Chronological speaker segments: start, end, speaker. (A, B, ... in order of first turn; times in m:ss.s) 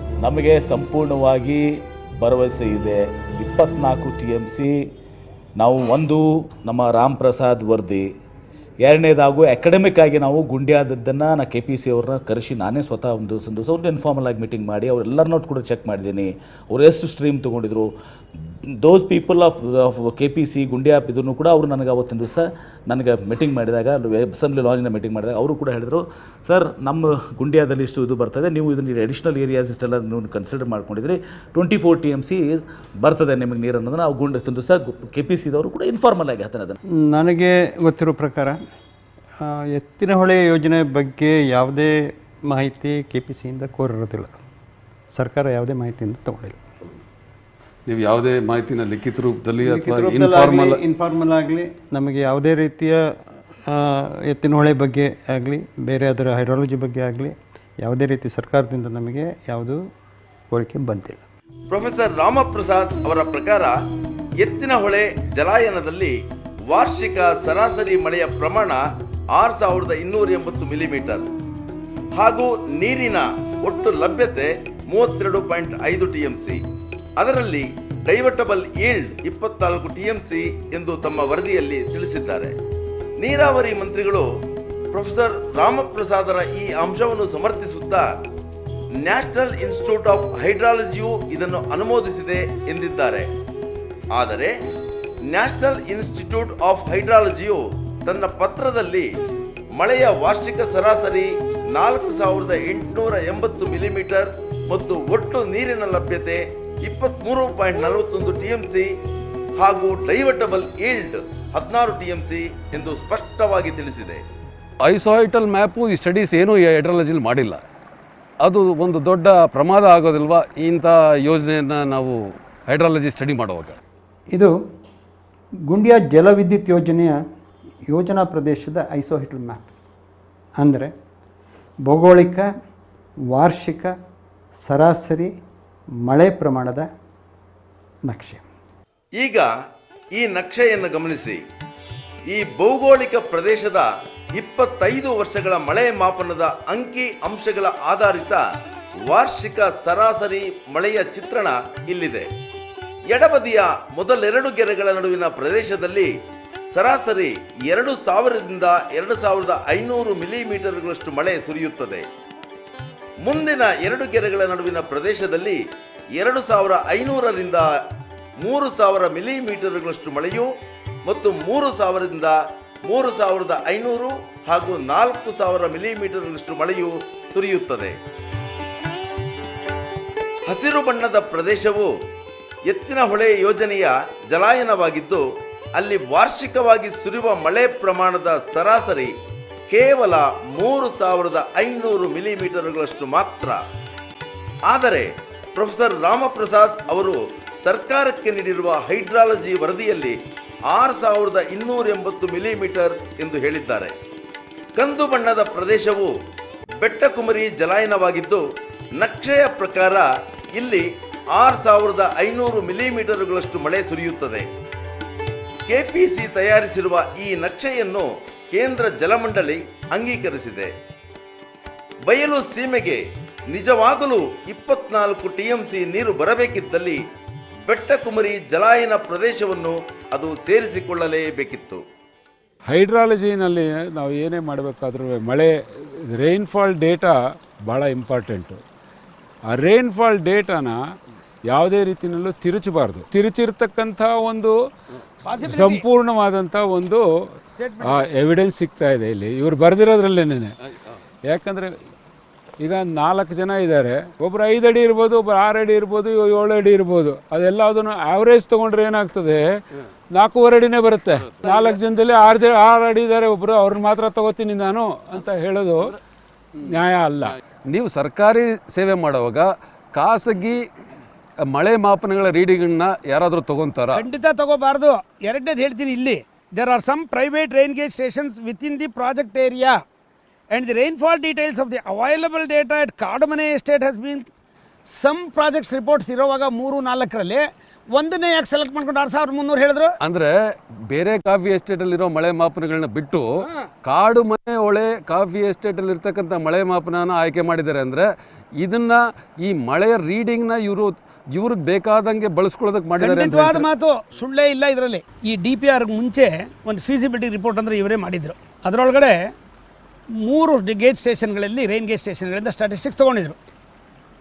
0:00.2-0:01.6 A
0:02.2-0:04.7 A
0:05.6-0:08.1 A
0:08.8-0:17.9 A
0:18.8-0:36.7 A
0:37.0-0:38.6 B
0:39.4-0:41.9 B
0:42.5-0:44.4 B
0:45.1-0:46.6 B
0:47.9-0:50.8 C
0:49.6-0:53.0 B
0:53.7-0:59.8 B
1:00.5-1:01.2 B
1:01.7-1:03.7 D
1:04.4-1:06.1 D
1:06.7-1:08.8 D
1:09.3-1:11.2 D
1:12.2-1:16.6 D
1:17.2-1:22.5 D
1:23.2-1:24.3 D
1:24.9-1:28.1 D
1:29.0-1:33.2 D
1:34.1-1:34.5 D
1:35.3-1:39.1 D
1:39.8-1:48.9 D
1:49.6-1:54.2 D
1:54.8-1:57.6 C
1:58.4-2:02.1 C
2:02.7-2:03.8 C
2:05.7-2:07.2 B
2:07.9-2:09.7 B
2:10.6-2:10.9 B
2:11.8-2:12.5 B
2:13.3-2:13.9 B
2:14.6-2:15.3 B
2:16.0-2:16.9 B
2:18.1-2:18.4 B
2:19.2-2:19.5 D
2:20.1-2:21.4 D
2:22.3-2:28.4 D
2:29.0-2:32.2 D
2:33.1-2:36.1 D
2:36.7-2:42.0 D
2:43.2-2:45.6 D
2:46.2-2:47.7 D
2:48.4-2:50.5 D
2:51.0-2:57.9 D
3:00.5-3:01.9 D
3:02.7-3:05.2 D
3:05.8-3:09.1 D
3:09.7-3:13.6 D
3:14.7-3:20.2 D
3:20.7-3:23.9 D
3:24.8-3:26.1 D
3:26.8-3:28.4 D
3:28.9-3:34.4 D
3:35.7-3:40.7 D
3:42.0-3:47.0 D
3:47.6-3:51.8 D
3:52.6-3:58.6 E
3:59.5-4:00.8 E
4:01.5-4:04.5 E
4:05.2-4:05.8 F
4:05.4-4:07.0 E
4:07.6-4:08.0 F
4:07.8-4:10.6 E
4:11.3-4:11.7 E
4:12.6-4:19.4 E
4:20.1-4:25.9 E
4:26.6-4:27.4 E
4:27.7-4:30.6 C
4:31.5-4:34.0 C
4:33.9-4:39.8 F
4:40.5-4:44.2 F
4:44.9-4:47.4 F
4:47.9-4:50.0 F
4:50.0-4:50.3 C
4:50.9-4:58.0 C
4:58.6-5:03.7 C
5:03.0-5:09.2 F
5:10.2-5:13.4 F